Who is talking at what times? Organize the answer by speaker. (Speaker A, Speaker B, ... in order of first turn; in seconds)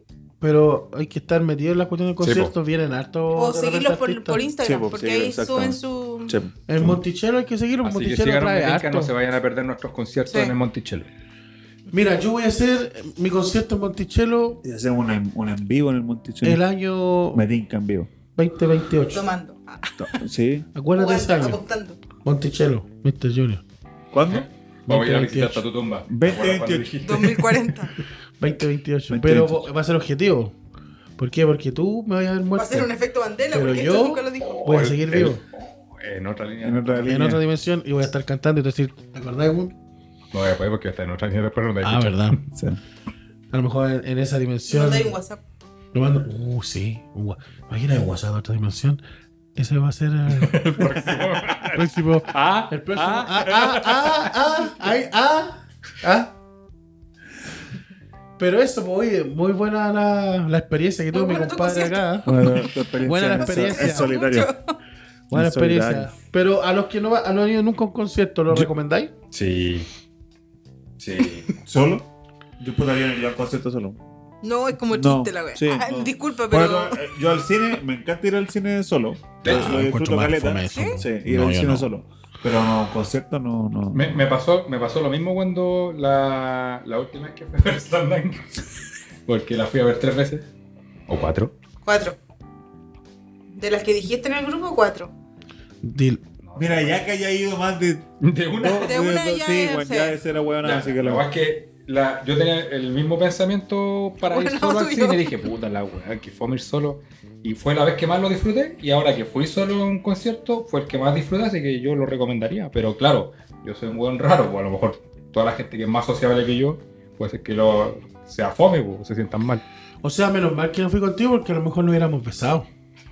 Speaker A: 0.4-4.5, 6.7-9.1, 11.9-14.6, 16.4-17.4, 18.4-19.2, 20.8-21.6, 22.2-23.6, 24.9-25.6, 28.4-30.5, 31.2-32.9, 33.5-35.4, 37.1-39.7, 41.8-42.4, 43.5-45.2, 45.9-49.0, 49.6-51.0, 51.7-56.3, 58.4-64.1, 65.3-69.1, 79.4-81.9, 95.8-96.2, 120.0-122.7
Speaker B: 2.2-2.5, 7.8-11.1, 24.3-27.6, 34.4-37.4, 40.3-42.3, 50.3-54.3, 69.3-69.9, 71.0-71.5, 79.4-79.8, 83.9-88.6, 89.3-90.5, 91.1-91.5, 96.4-97.0, 98.2-99.0, 100.6-119.6
Speaker C: 3.4-6.4, 19.1-20.2, 20.9-22.0, 27.0-27.9, 32.5-34.6, 44.7-45.4, 61.1-62.0, 63.4-64.8, 74.4-77.1, 80.7-81.0, 91.8-92.2, 93.6-95.1, 98.8-100.2, 104.2-105.3
Speaker D: 4.6-7.0, 14.6-16.6, 17.3-18.1, 20.0-20.7, 24.1-24.5, 26.1-27.0, 29.1-29.7, 36.6-37.4, 42.5-42.8, 62.2-64.5, 65.3-66.1, 71.7-72.1, 72.6-74.0, 74.9-84.3, 96.6-101.3